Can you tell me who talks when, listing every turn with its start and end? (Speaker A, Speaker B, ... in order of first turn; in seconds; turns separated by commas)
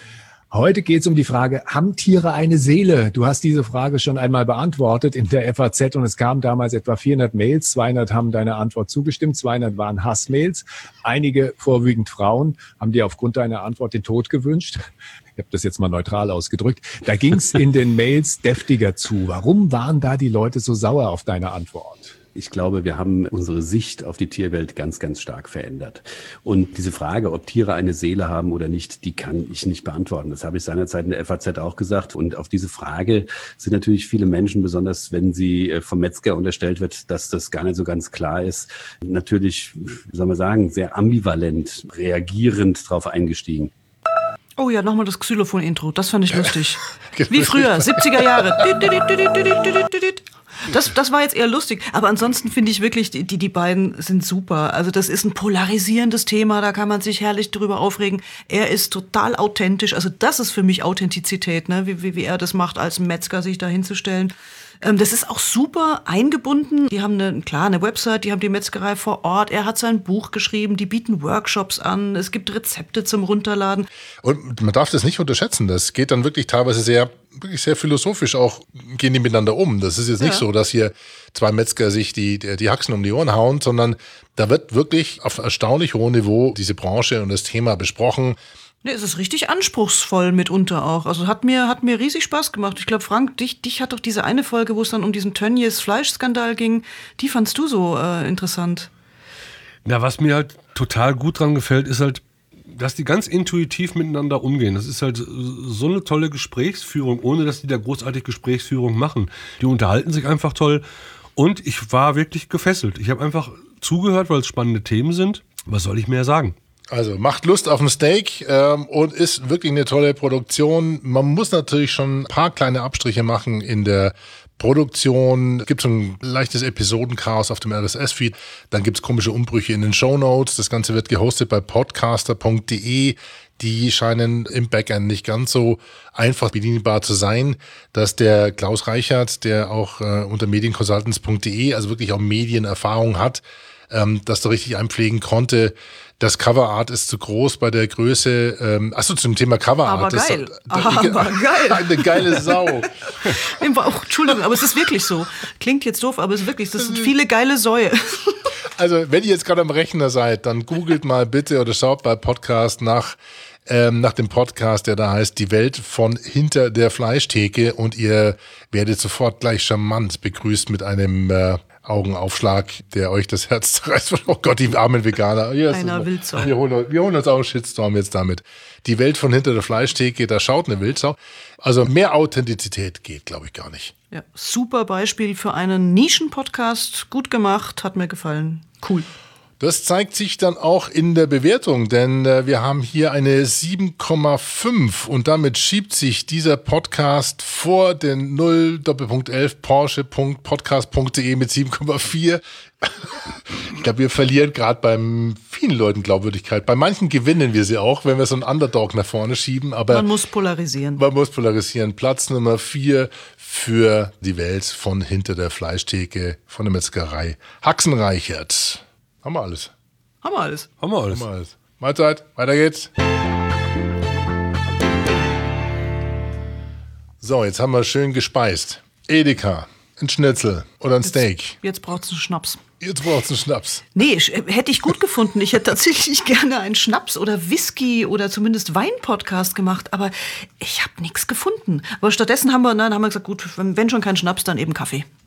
Speaker A: 0.5-22.1, Speaker B: 22.3-43.7, Speaker C: 44.6-73.9, Speaker D: 47.1-48.5, Speaker D: 74.2-88.4, Speaker C: 80.2-80.4, Speaker C: 88.8-98.9, Speaker E: 99.8-110.8, Speaker E: 111.3-116.5, Speaker D: 116.9-152.9, Speaker C: 149.8-152.5, Speaker C: 153.2-158.4, Speaker D: 158.7-183.9, Speaker C: 175.7-176.5, Speaker C: 184.1-189.1, Speaker D: 189.6-210.1, Speaker C: 209.9-211.0, Speaker D: 211.0-219.7, Speaker C: 220.2-220.7, Speaker E: 220.8-221.2, Speaker D: 221.1-222.9, Speaker D: 227.2-231.6, Speaker C: 231.0-232.6, Speaker D: 232.8-233.9, Speaker C: 233.9-245.1